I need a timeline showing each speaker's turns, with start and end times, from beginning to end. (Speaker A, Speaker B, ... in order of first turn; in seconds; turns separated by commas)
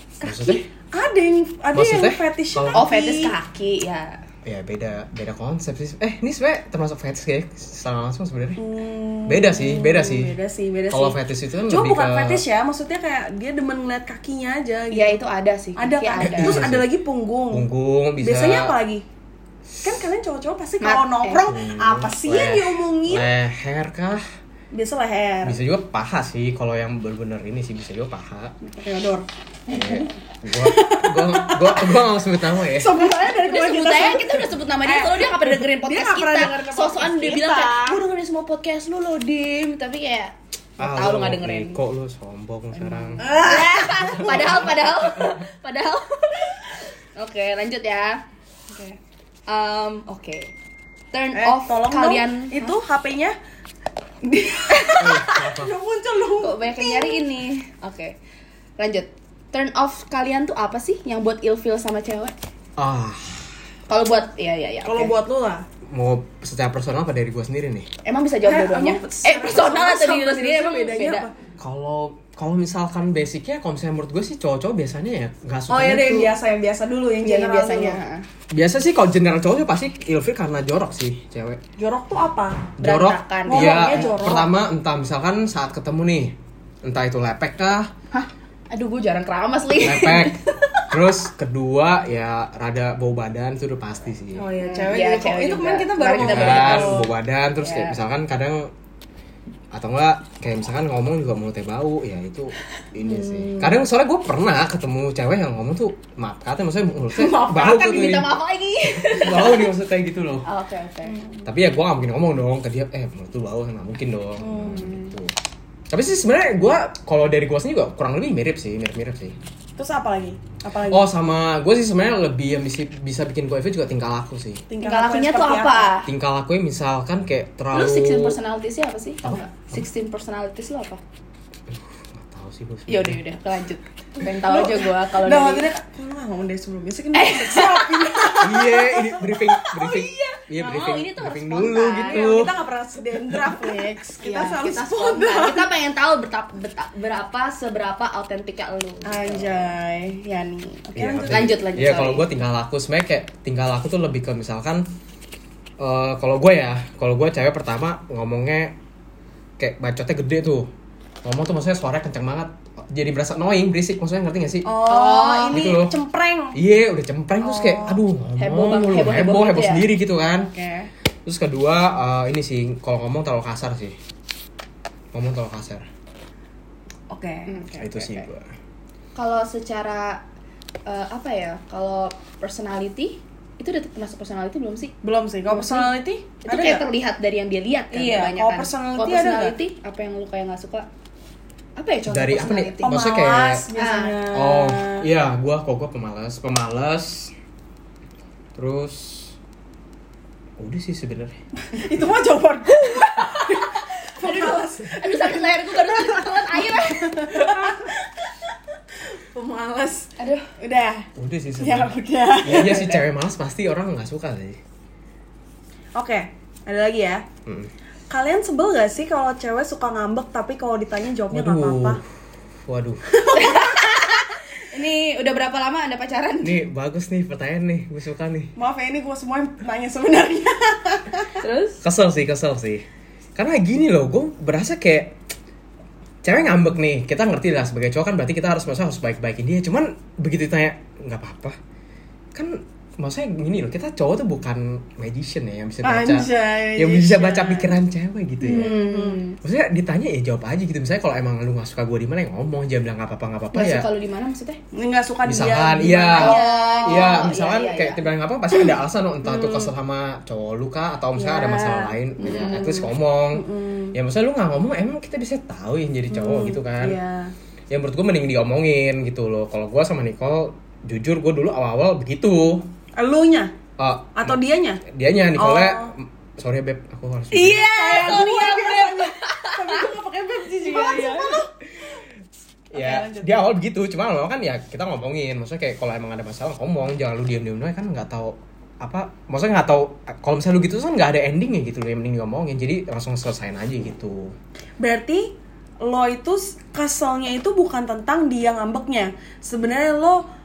Speaker A: 0.2-3.4, Speaker B: 0.2-0.7, Speaker B: 1.7-2.9, Speaker C: 2.7-4.2, Speaker B: 4.5-8.6, Speaker A: 8.6-15.2, Speaker B: 9.3-10.3, Speaker B: 10.9-12.4, Speaker C: 14.9-16.6, Speaker A: 15.8-17.7, Speaker B: 16.2-16.9, Speaker B: 17.5-18.8, Speaker A: 18.2-19.1, Speaker A: 19.8-23.3, Speaker C: 20.8-21.5, Speaker B: 21.5-24.2, Speaker A: 24.7-25.6, Speaker B: 25.4-28.6, Speaker A: 28.6-32.0, Speaker B: 29.7-33.0, Speaker A: 32.6-38.1, Speaker C: 33.1-41.8, Speaker B: 40.8-43.3, Speaker C: 42.8-48.2, Speaker A: 43.2-44.6, Speaker B: 43.8-45.4, Speaker C: 49.5-50.5, Speaker C: 51.1-52.8, Speaker A: 51.3-53.4, Speaker A: 54.4-57.2, Speaker C: 54.4-55.1, Speaker B: 55.0-55.7, Speaker C: 56.4-58.2, Speaker C: 58.8-62.4, Speaker B: 62.8-63.5, Speaker C: 63.9-65.1, Speaker A: 64.8-65.7, Speaker B: 65.9-67.9, Speaker C: 68.0-71.3, Speaker A: 68.4-71.3, Speaker B: 71.6-76.4, Speaker A: 75.7-78.0, Speaker C: 77.2-78.3, Speaker B: 78.5-81.6, Speaker A: 81.8-82.7, Speaker B: 82.8-87.9, Speaker C: 82.8-84.2, Speaker A: 83.5-84.5, Speaker C: 88.1-90.9, Speaker B: 89.8-90.4, Speaker B: 90.9-94.5, Speaker A: 94.4-97.1, Speaker C: 94.6-97.1, Speaker B: 96.1-98.7, Speaker C: 97.6-98.0, Speaker B: 99.7-108.4, Speaker C: 103.1-103.7, Speaker C: 107.2-109.7, Speaker B: 108.9-110.5, Speaker C: 110.5-111.2, Speaker A: 111.1-111.5, Speaker B: 111.5-115.3, Speaker A: 114.4-114.9, Speaker B: 115.9-119.4, Speaker A: 119.8-121.1, Speaker B: 120.9-124.6, Speaker A: 124.7-125.9, Speaker C: 124.8-126.1, Speaker B: 126.1-128.4, Speaker C: 127.7-131.0, Speaker B: 129.2-129.8, Speaker B: 131.7-133.2, Speaker C: 132.9-135.7, Speaker A: 134.2-139.2, Speaker C: 137.1-138.7, Speaker B: 138.4-142.5, Speaker C: 139.7-142.5, Speaker A: 142.0-145.7, Speaker C: 143.6-149.7, Speaker A: 149.1-151.4, Speaker B: 151.0-154.9, Speaker C: 151.2-152.3, Speaker B: 155.8-158.8, Speaker B: 159.6-160.7, Speaker B: 161.2-164.7, Speaker A: 164.7-166.6, Speaker C: 164.8-165.6, Speaker B: 165.5-165.9, Speaker B: 166.5-170.5, Speaker A: 167.4-168.0, Speaker C: 168.4-169.9, Speaker A: 170.4-170.9, Speaker B: 171.3-174.0, Speaker B: 175.1-175.9, Speaker A: 177.1-177.6, Speaker C: 177.5-178.3, Speaker B: 177.8-178.5, Speaker C: 179.2-180.2, Speaker C: 180.9-184.9, Speaker A: 185.0-186.9, Speaker C: 185.5-185.9, Speaker C: 186.4-190.9, Speaker A: 187.9-189.6, Speaker C: 191.8-193.0, Speaker B: 192.1-193.6, Speaker A: 192.8-195.1, Speaker C: 193.8-194.2, Speaker B: 194.3-197.3, Speaker B: 198.6-199.4, Speaker B: 200.6-201.4, Speaker A: 201.7-208.3, Speaker C: 202.8-207.8, Speaker A: 209.2-213.0, Speaker C: 210.2-210.5, Speaker B: 211.2-214.6, Speaker C: 212.5-213.0, Speaker A: 215.9-217.2, Speaker B: 217.5-217.7, Speaker A: 218.1-222.0, Speaker B: 221.3-222.0, Speaker B: 222.6-223.0, Speaker A: 223.1-224.2, Speaker C: 223.3-226.6, Speaker B: 226.4-228.5, Speaker A: 228.6-231.4, Speaker C: 231.4-231.8, Speaker B: 231.8-235.2, Speaker B: 236.2-241.6, Speaker B: 242.3-248.8, Speaker A: 245.8-247.7, Speaker C: 248.4-249.4, Speaker A: 248.5-249.2, Speaker B: 249.4-253.9, Speaker C: 253.5-254.6, Speaker A: 254.7-257.3, Speaker B: 255.2-267.0, Speaker C: 256.1-258.0, Speaker A: 259.2-259.7, Speaker A: 261.2-264.0, Speaker C: 262.2-262.9, Speaker A: 266.1-267.3, Speaker B: 267.7-272.7, Speaker A: 273.0-273.5, Speaker B: 273.8-277.7, Speaker A: 274.1-274.8, Speaker A: 275.4-275.9, Speaker C: 277.3-279.8, Speaker A: 277.6-281.5, Speaker C: 280.5-281.4, Speaker B: 282.7-294.4, Speaker A: 282.7-283.5, Speaker A: 294.8-300.2